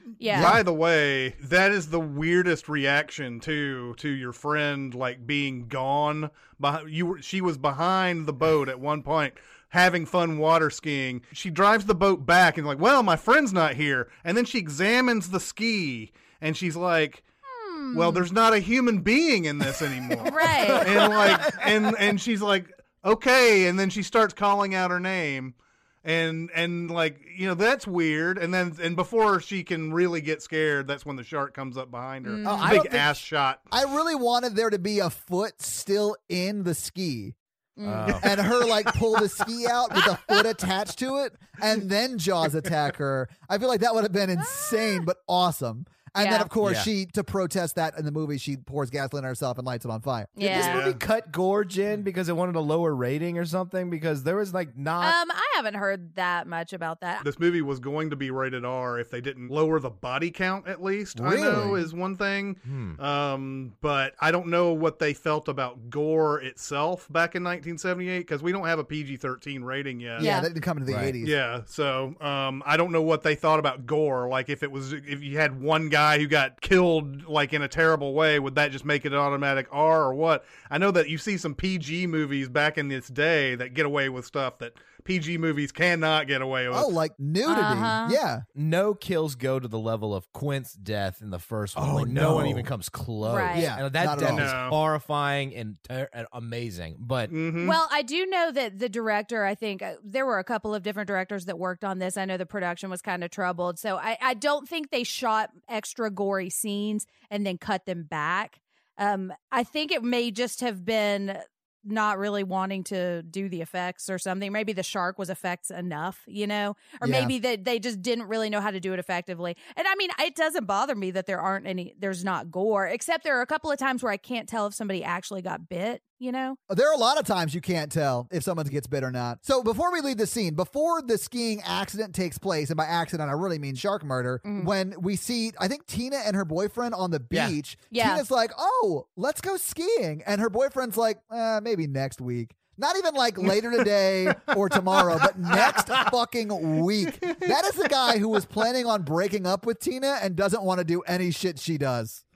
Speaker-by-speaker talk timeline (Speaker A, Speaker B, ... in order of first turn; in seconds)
Speaker A: 0.2-0.6, 17.5-18.2, 20.2-21.0, 32.2-32.8, 37.8-38.2, 44.4-45.0, 46.2-46.5, 50.4-50.8, 55.0-57.2, 70.2-70.5, 87.4-88.2, 93.2-93.7, 97.6-126.6, 134.4-134.7, 137.9-138.2
Speaker B: 0.3-0.6, 20.9-21.6, 33.7-37.3, 38.2-50.5, 61.1-61.8, 70.2-71.3, 86.7-88.4, 91.8-92.7, 93.5-94.5, 117.0-117.3, 126.7-152.2
Speaker C: 0.3-17.2, 17.9-33.7, 50.6-51.0, 57.2-70.3, 71.2-86.9, 94.2-94.8, 97.3-97.8
Speaker D: 32.4-33.2, 37.8-38.5, 46.6-46.9, 50.4-55.1, 61.5-61.8, 62.6-63.0, 70.9-71.1, 88.5-97.3, 145.7-146.0